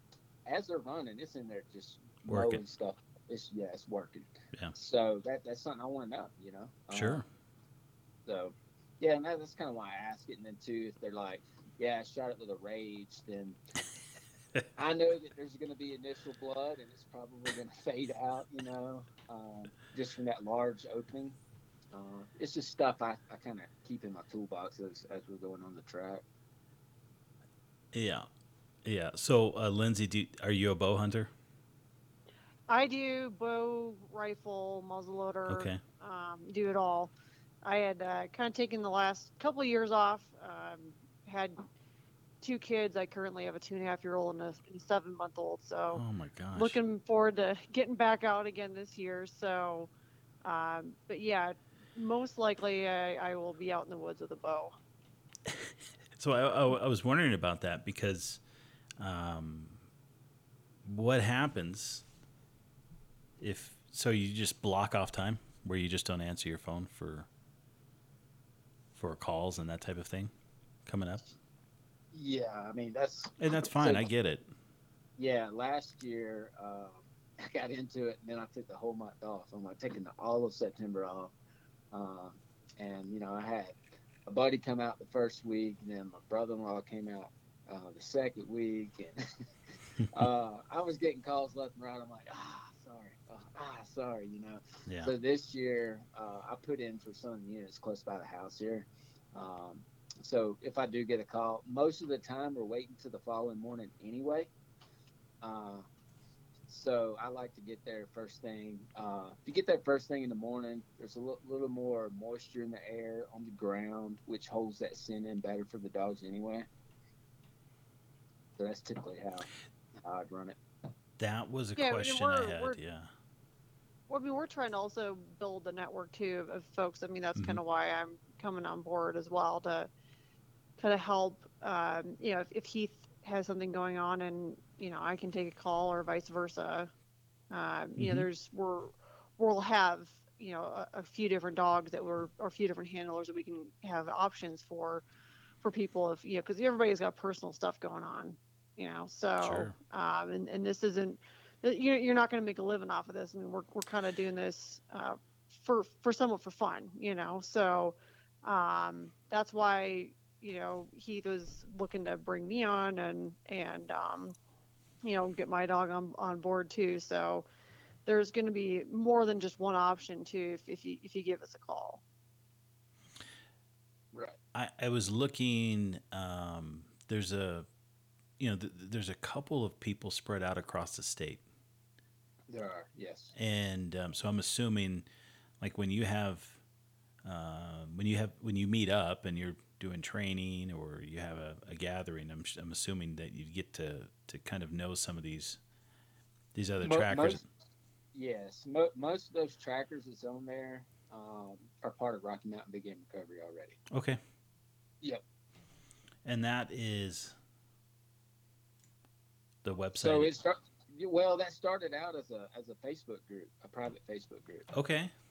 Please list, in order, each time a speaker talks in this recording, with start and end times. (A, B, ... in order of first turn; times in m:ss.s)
0:00.4-0:07.2 A
0:02.3-0:02.6 B
0:06.9-0:07.2 B
0:08.2-0:13.6 A
0:14.8-0:21.4 A
0:21.9-0:26.2 A
0:27.9-0:28.3 B
0:28.8-0:31.3 B
0:32.7-0:41.6 C
0:35.5-0:35.8 B
0:42.4-0:46.0 C
0:45.9-0:46.8 B
0:46.5-0:49.9 C
0:50.4-0:54.8 C
0:55.4-0:58.4 B
0:59.0-0:59.8 B
1:00.8-1:02.0 B
1:03.4-1:07.3 B
1:08.9-1:10.3 B
1:10.8-1:11.2 B
1:12.1-1:14.1 A
1:13.4-1:14.5 B
1:15.2-1:21.3 A
1:21.9-1:44.5 A
1:34.9-1:35.1 B
1:45.4-1:45.9 A
1:46.7-1:56.7 A
1:58.6-1:59.5 A
2:00.0-2:00.6 A
2:01.2-2:03.1 B
2:01.8-2:02.8 C
2:04.1-2:09.9 C
2:07.3-2:07.6 B
2:10.8-2:16.9 C
2:17.5-2:25.0 C
2:18.0-2:18.2 B
2:25.6-2:44.4 C
2:29.4-2:29.8 B
2:45.0-2:47.5 C
2:48.0-2:52.0 C
2:54.5-2:57.7 B
2:58.4-3:01.4 B
3:02.5-3:03.3 A
3:03.4-3:05.0 B
3:05.6-3:06.6 B
3:07.2-3:15.6 B
3:16.5-3:17.5 B
3:16.8-3:17.4 A
3:18.1-3:23.8 A
3:23.9-3:24.2 B
3:26.2-3:27.4 B
3:29.6-3:30.3 B
3:30.0-3:34.7 A
3:34.7-3:35.1 B